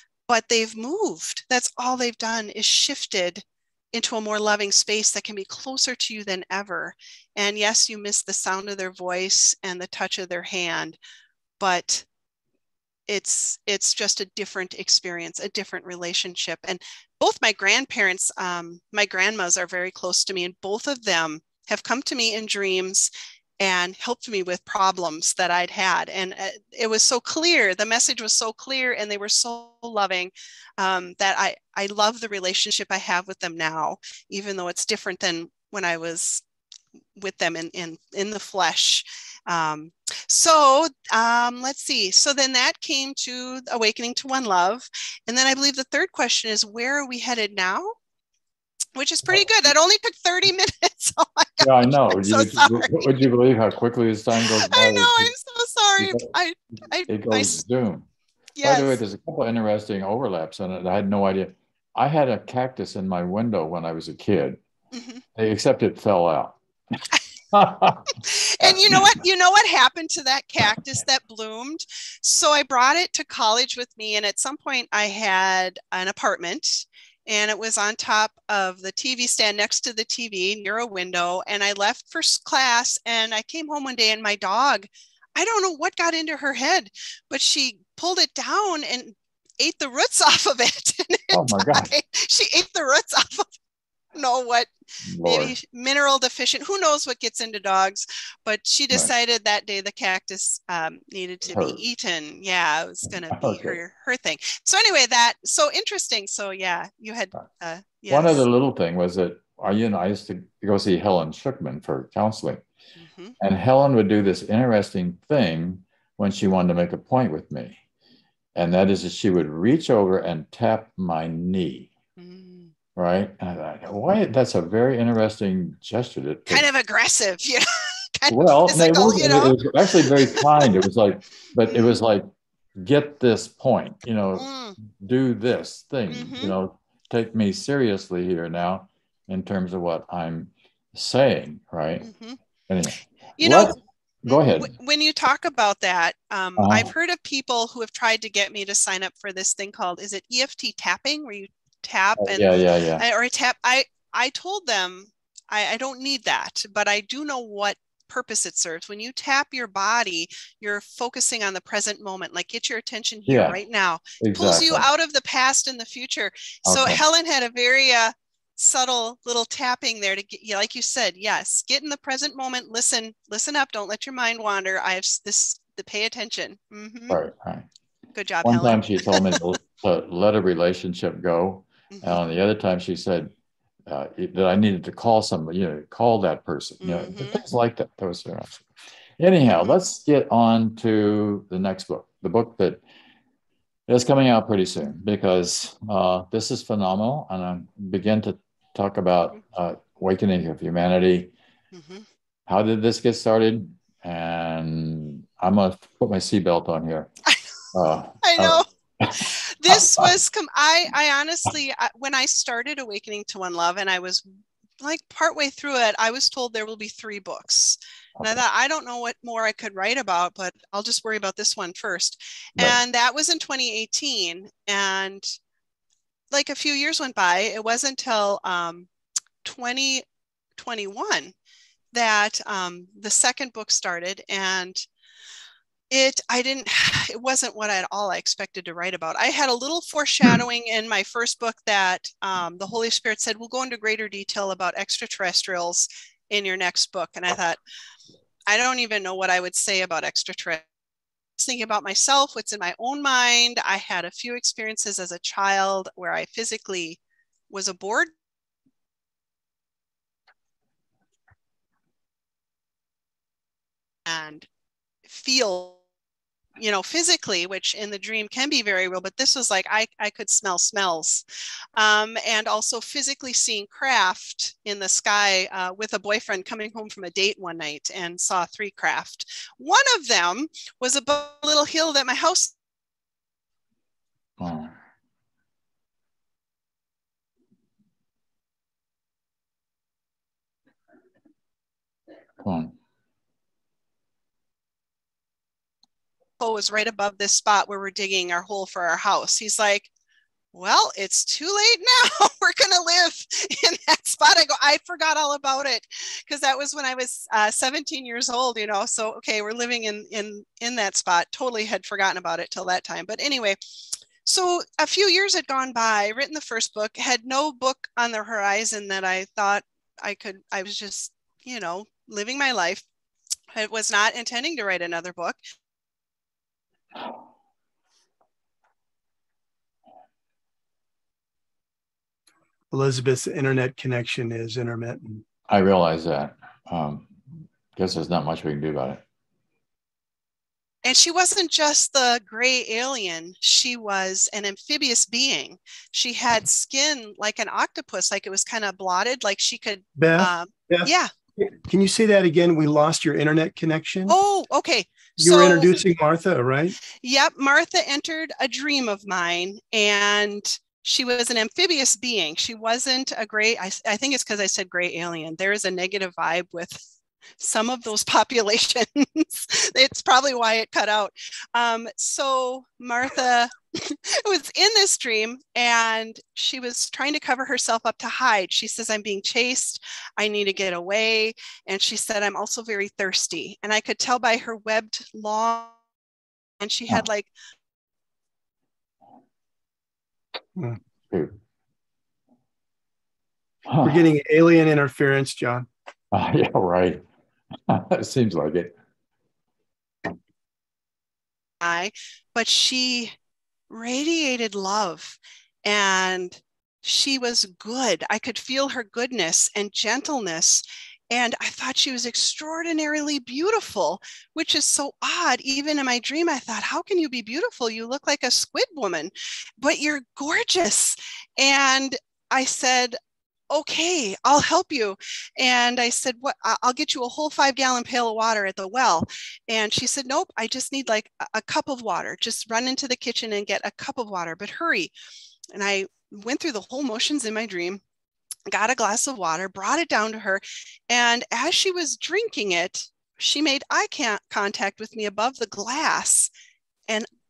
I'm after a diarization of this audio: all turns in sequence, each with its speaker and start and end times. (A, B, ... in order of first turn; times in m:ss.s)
0:00.3-0:11.0 A
0:11.6-0:12.0 A
0:13.1-0:36.4 A
0:37.2-0:48.0 A
0:49.0-0:53.3 A
0:51.6-0:55.3 B
0:54.4-0:57.6 A
0:56.0-0:56.3 B
0:57.1-0:58.1 B
0:58.6-0:59.0 A
0:58.6-1:04.6 B
1:04.9-1:05.2 A
1:05.4-1:06.6 B
1:07.5-1:09.1 B
1:08.2-1:33.5 A
1:31.3-1:31.9 B
1:34.1-1:34.7 A
1:35.0-1:35.5 B
1:35.2-1:48.4 A
1:41.5-1:41.8 B
1:43.3-1:43.8 B
1:48.1-1:52.6 B
1:53.0-1:53.4 A
1:53.4-1:57.8 B
1:58.6-2:01.9 B
2:02.2-2:02.7 A
2:03.0-2:06.6 B
2:06.5-2:07.6 A
2:08.2-2:10.7 A
2:08.3-2:22.1 B
2:11.7-2:11.9 A
2:14.4-2:14.8 A
2:16.1-2:16.5 A
2:22.0-2:22.4 A
2:22.7-2:24.7 B
2:23.4-2:57.2 A
2:26.6-2:26.9 B
2:32.2-2:33.0 B
2:43.3-2:43.6 B
2:44.2-2:44.9 B
2:46.6-2:47.0 B
2:57.1-2:57.7 B
2:58.1-2:59.4 A
2:58.4-3:03.3 B
3:01.9-3:02.2 A
3:03.9-3:08.6 B
3:06.8-3:07.4 A
3:09.2-3:12.8 B
3:13.9-3:21.3 B
3:21.7-3:22.0 A
3:22.5-3:27.1 B
3:27.7-3:30.1 B
3:28.2-3:28.6 A
3:29.2-3:34.3 A
3:34.8-3:45.3 A
3:46.3-3:48.9 A
3:49.4-3:50.0 A
3:50.6-3:51.3 A
3:51.9-3:54.8 A
3:55.9-4:07.6 A
4:08.5-4:10.6 A
4:11.4-4:17.0 A
4:17.5-4:18.1 A
4:24.1-4:24.5 A
4:25.1-4:25.8 A
4:26.6-4:31.2 A
4:31.8-4:42.5 A
4:44.4-4:44.8 B
4:52.4-4:52.7 B
4:56.4-4:59.9 A
5:00.5-5:13.6 A
5:14.2-5:22.8 A
5:23.5-5:25.4 A
5:32.7-5:35.2 C
5:35.5-5:37.1 B
5:37.7-5:39.0 B
5:40.8-5:51.1 A
5:50.0-5:50.9 C
5:51.4-5:54.2 C
5:54.1-5:55.8 A
5:55.2-5:56.8 C
5:57.0-6:06.8 A
6:07.4-6:25.8 A
6:26.6-6:27.3 A
6:31.1-6:31.4 B
6:33.6-6:34.0 B
6:33.8-6:35.6 C
6:36.1-6:37.0 B
6:37.7-6:38.8 B
6:41.6-6:43.1 A
6:43.7-7:03.0 A
7:03.5-7:14.9 A
7:15.5-7:17.8 A
7:18.5-7:26.3 A